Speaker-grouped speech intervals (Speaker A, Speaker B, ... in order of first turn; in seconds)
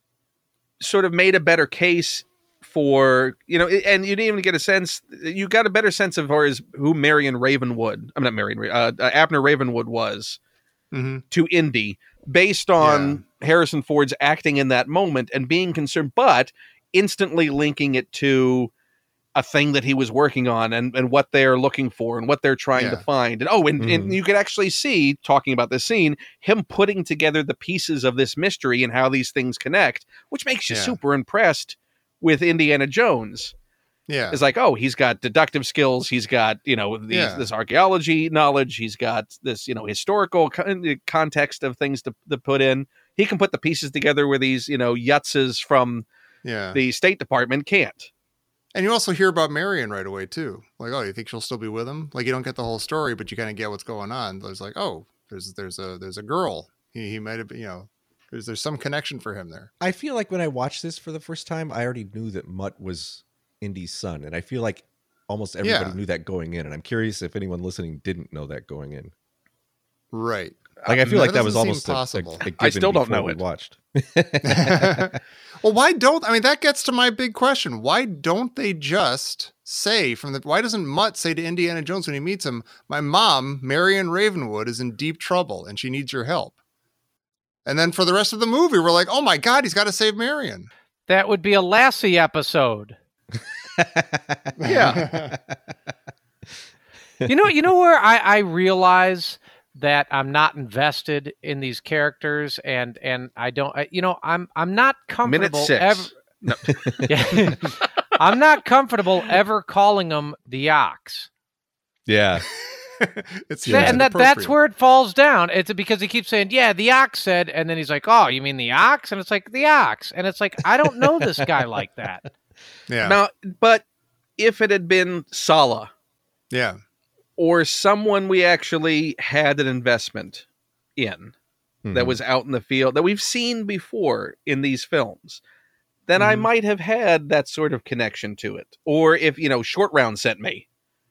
Speaker A: 0.8-10.4, 11.3-18.7, 19.3-33.5, 34.3-46.0, 46.7-48.1, 70.8-71.1, 72.6-73.4, 94.7-95.0, 105.2-107.7, 123.0-123.8, 124.4-125.9, 127.4-130.4, 131.0-131.3, 131.9-135.4, 136.1-140.6
Speaker B: 10.9-11.2, 12.8-13.2, 22.7-23.0, 30.7-31.0, 34.1-34.4, 37.1-37.5, 46.4-46.8, 48.7-59.7, 65.6-66.0, 70.1-72.5, 74.4-86.5, 87.6-90.7, 94.6-95.3, 112.6-114.5, 122.9-123.2, 126.5-126.8, 136.2-136.4
Speaker C: 23.8-24.2, 59.8-69.1, 70.8-75.1, 93.7-95.5, 112.1-112.5, 113.7-114.0, 131.8-132.2
Speaker D: 91.1-93.0, 97.3-106.1, 107.1-111.3, 113.7-122.2